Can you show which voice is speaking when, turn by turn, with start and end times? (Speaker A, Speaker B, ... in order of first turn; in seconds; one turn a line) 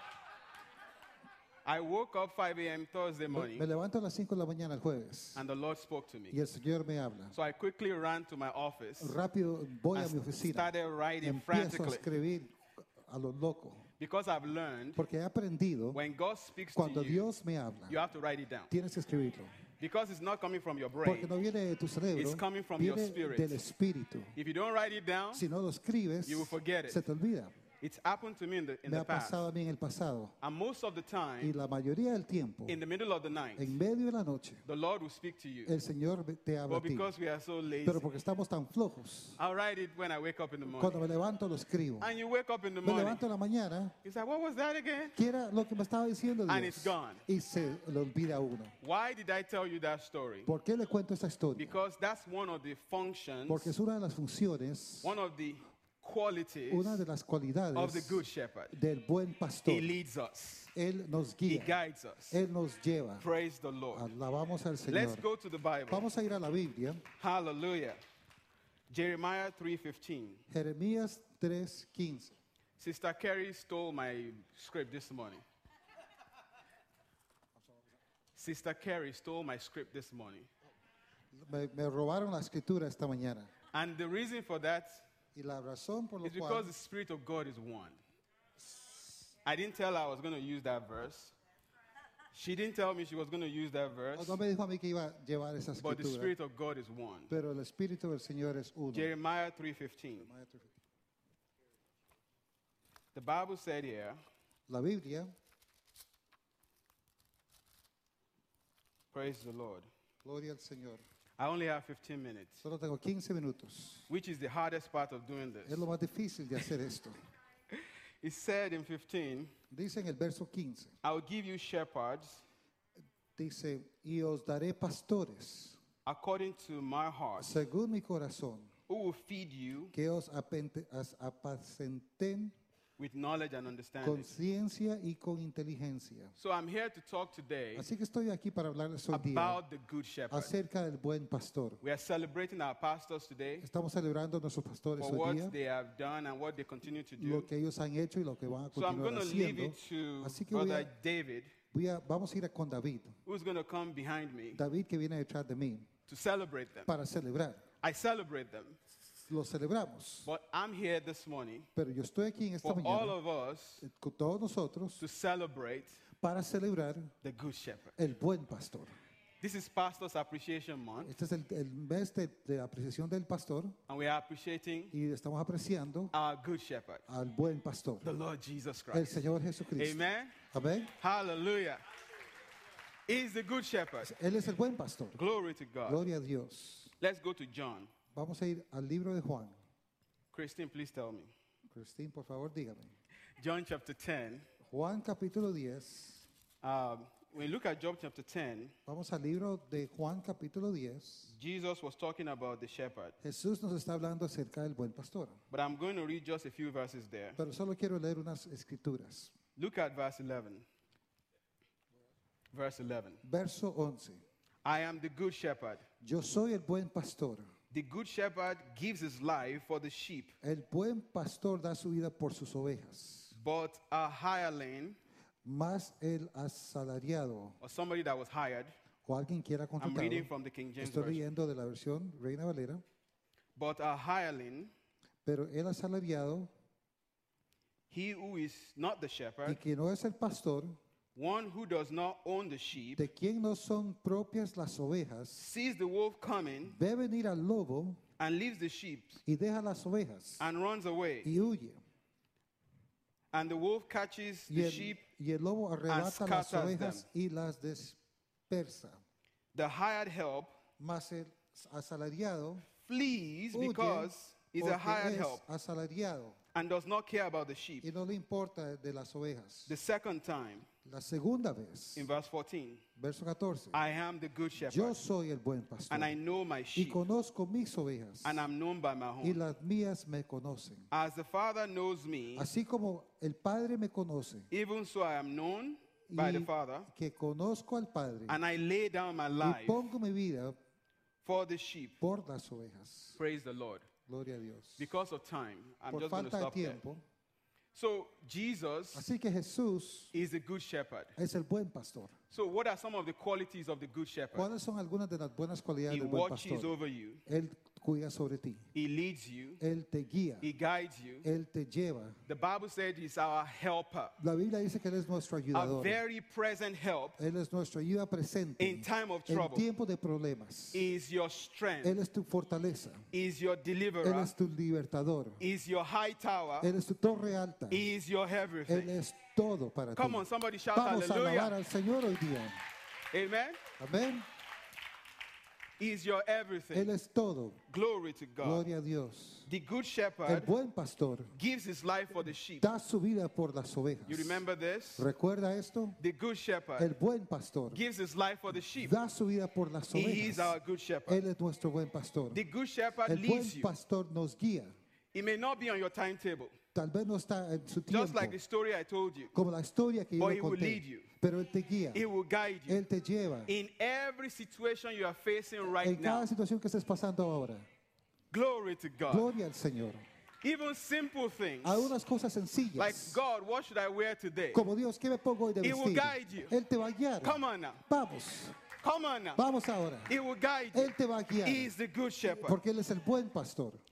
Speaker A: 1.6-3.7
Speaker B: 3.3-5.5
Speaker A: 5.3-6.4
Speaker B: 6.3-7.3
Speaker A: 7.3-9.2
Speaker B: 9.0-10.7
Speaker A: 9.9-12.1
Speaker B: 11.2-13.9
Speaker A: 14.0-15.0
Speaker B: 15.0-16.0
Speaker A: 15.9-17.3
Speaker B: 16.7-18.0
Speaker A: 17.9-18.7
Speaker B: 18.7-19.6
Speaker A: 19.8-21.3
Speaker B: 21.0-24.4
Speaker A: 22.2-23.6
Speaker A: 24.4-25.4
Speaker B: 25.3-27.5
Speaker A: 26.2-27.0
Speaker A: 27.8-29.4
Speaker B: 28.9-30.4
Speaker A: 30.4-31.6
Speaker B: 31.4-32.8
Speaker A: 32.7-33.8
Speaker B: 33.6-34.6
Speaker A: 34.7-35.8
Speaker B: 35.6-37.1
Speaker A: 36.7-38.0
Speaker B: 37.8-39.4
Speaker A: 39.4-41.0
Speaker B: 40.7-42.1
Speaker A: 42.0-43.2
Speaker B: 42.8-44.0
Speaker A: 44.0-45.2
Speaker B: 45.1-48.7
Speaker A: 46.5-47.2
Speaker A: 48.8-50.5
Speaker B: 50.5-51.8
Speaker A: 51.6-53.8
Speaker B: 53.5-55.2
Speaker A: 55.0-57.0
Speaker B: 56.7-59.9
Speaker A: 57.7-58.8
Speaker A: 59.7-60.7
Speaker B: 60.7-61.8
Speaker A: 61.5-62.4
Speaker B: 62.3-63.3
Speaker A: 63.2-64.1
Speaker B: 63.9-65.3
Speaker A: 64.9-66.1
Speaker B: 65.9-67.0
Speaker A: 67.2-68.0
Speaker A: 68.9-70.4
Speaker B: 70.5-72.4
Speaker A: 72.8-75.4
Speaker A: 78.3-80.5
Speaker B: 81.3-83.5
Speaker A: 83.7-85.0
Speaker B: 85.3-86.7
Speaker A: 86.2-88.0
Speaker A: 89.5-91.3
Speaker A: 92.3-94.4
Speaker B: 94.2-96.3
Speaker A: 95.8-97.3
Speaker B: 97.3-99.1
Speaker A: 98.9-100.3
Speaker B: 100.2-100.7
Speaker A: 103.1-104.2
Speaker B: 104.7-105.3
Speaker A: 109.1-109.9
Speaker B: 110.2-111.0
Speaker A: 111.4-112.6
Speaker B: 112.6-114.1
Speaker A: 114.1-115.8
Speaker B: 115.7-117.2
Speaker A: 117.7-119.5
Speaker B: 119.7-120.9
Speaker A: 121.0-122.4
Speaker B: 123.4-125.8
Speaker A: 126.0-127.6
Speaker B: 127.4-128.7
Speaker A: 128.9-129.9
Speaker B: 129.9-132.6
Speaker A: 133.0-134.3
Speaker B: 134.0-136.3
Speaker A: 136.4-137.9
Speaker B: 137.8-139.6
Speaker A: 139.1-140.5
Speaker B: 140.3-141.8
Speaker A: 141.8-143.7
Speaker B: 143.6-145.6
Speaker A: 145.0-147.5
Speaker B: 147.2-150.9
Speaker A: 148.8-151.5
Speaker B: 151.7-153.2
Speaker A: 153.3-154.6
Speaker B: 154.5-155.9
Speaker A: 156.1-156.9
Speaker B: 156.9-157.6
Speaker A: 157.8-158.8
Speaker B: 159.2-160.3
Speaker A: 160.2-161.7
Speaker B: 161.8-163.2
Speaker A: 162.6-163.8
Speaker B: 163.8-165.0
Speaker A: 165.0-166.0
Speaker B: 166.2-167.1
Speaker A: 167.2-167.9
Speaker B: 168.0-168.9
Speaker A: 169.4-171.1
Speaker B: 171.0-173.8
Speaker A: 173.9-174.9
Speaker B: 174.9-176.1
Speaker A: 176.1-177.1
Speaker B: 177.1-178.1
Speaker A: 178.0-179.3
Speaker B: 178.9-180.9
Speaker A: 179.8-180.4
Speaker A: 181.0-181.8
Speaker A: 183.1-184.1
Speaker B: 184.0-185.2
Speaker A: 185.2-186.0
Speaker B: 185.9-186.9
Speaker A: 187.0-187.9
Speaker B: 188.1-189.6
Speaker A: 190.3-191.3
Speaker B: 191.7-192.9
Speaker A: 193.4-194.5
Speaker B: 194.7-196.3
Speaker A: 196.6-198.8
Speaker B: 198.9-201.3
Speaker A: 201.3-203.2
Speaker B: 203.2-205.4
Speaker A: 205.5-207.4
Speaker B: 207.4-209.3
Speaker A: 209.6-210.7
Speaker A: 212.5-213.2
Speaker B: 213.2-214.2
Speaker A: 214.6-215.8
Speaker B: 216.0-217.5
Speaker A: 217.7-220.3
Speaker B: 220.4-223.4
Speaker A: 223.3-225.0
Speaker B: 225.4-227.6
Speaker A: 227.6-228.7
Speaker B: 229.1-232.8
Speaker A: 229.8-231.2
Speaker A: 233.6-234.7
Speaker B: 235.2-236.5
Speaker A: 237.9-239.6
Speaker B: 239.5-240.8
Speaker A: 241.2-243.1
Speaker B: 243.0-245.4
Speaker A: 245.3-246.8
Speaker B: 246.7-248.0
Speaker A: 248.2-249.2
Speaker B: 249.3-250.5
Speaker A: 250.4-251.3
Speaker B: 251.2-251.8
Speaker A: 253.3-255.0
Speaker B: 254.5-259.0
Speaker A: 255.9-257.1
Speaker A: 259.5-260.5
Speaker B: 260.8-262.7
Speaker A: 262.8-265.4
Speaker B: 263.5-266.4
Speaker A: 266.5-267.9
Speaker B: 267.8-269.8
Speaker A: 269.7-270.7
Speaker B: 270.8-272.1
Speaker A: 272.0-272.8
Speaker B: 273.0-273.8
Speaker A: 273.7-275.0
Speaker B: 274.6-276.2
Speaker A: 275.9-277.0
Speaker B: 276.8-278.5
Speaker A: 278.2-279.4
Speaker B: 279.2-280.9
Speaker A: 280.9-282.5
Speaker B: 282.4-284.5
Speaker A: 284.5-286.9
Speaker B: 286.1-288.4
Speaker A: 288.3-289.9
Speaker B: 289.4-290.6
Speaker A: 291.2-292.0
Speaker B: 292.0-293.2
Speaker A: 293.2-293.9
Speaker B: 294.1-294.9
Speaker A: 294.8-296.8
Speaker B: 295.9-297.0
Speaker A: 297.7-299.0
Speaker B: 298.9-300.1
Speaker A: 300.1-301.2
Speaker B: 301.2-302.1
Speaker A: 302.3-304.5
Speaker B: 304.4-306.8
Speaker A: 305.9-307.2
Speaker B: 307.3-308.7
Speaker A: 308.7-309.6
Speaker B: 309.6-310.5
Speaker A: 310.4-311.3
Speaker B: 311.2-312.2
Speaker A: 312.3-314.2
Speaker B: 314.2-316.0
Speaker A: 315.5-317.2
Speaker B: 317.2-320.9
Speaker A: 318.6-319.6
Speaker A: 320.7-322.0
Speaker B: 321.8-323.1
Speaker A: 323.1-324.3
Speaker B: 324.0-325.4
Speaker A: 325.4-326.7
Speaker B: 326.6-327.9
Speaker A: 327.7-328.9
Speaker B: 328.7-332.6
Speaker A: 329.9-331.5
Speaker A: 333.1-333.6
Speaker B: 333.8-334.3
Speaker A: 335.8-336.9
Speaker B: 336.7-337.6
Speaker A: 337.7-338.7
Speaker B: 338.4-339.5
Speaker A: 339.5-340.5
Speaker B: 340.3-341.3
Speaker A: 341.3-342.7
Speaker B: 342.6-344.4
Speaker A: 344.1-345.1
Speaker B: 345.0-346.0
Speaker A: 346.0-346.9
Speaker B: 346.8-347.8
Speaker A: 347.7-349.0
Speaker B: 348.8-352.4
Speaker A: 349.9-351.2
Speaker A: 352.3-353.7
Speaker B: 353.1-354.7
Speaker A: 355.1-356.5
Speaker B: 356.7-358.4
Speaker A: 357.9-359.3
Speaker B: 359.3-362.0
Speaker A: 360.2-361.1
Speaker A: 361.9-362.8
Speaker B: 362.7-363.5
Speaker A: 363.5-366.3
Speaker B: 365.7-367.7
Speaker A: 368.3-369.3
Speaker B: 369.1-370.1
Speaker A: 370.4-371.9
Speaker B: 371.6-373.2
Speaker A: 372.8-374.6
Speaker B: 374.5-378.6
Speaker A: 375.6-376.6
Speaker A: 377.2-377.8
Speaker A: 378.8-379.4
Speaker B: 379.4-380.2
Speaker A: 380.1-382.6
Speaker B: 380.7-381.7
Speaker B: 382.4-383.8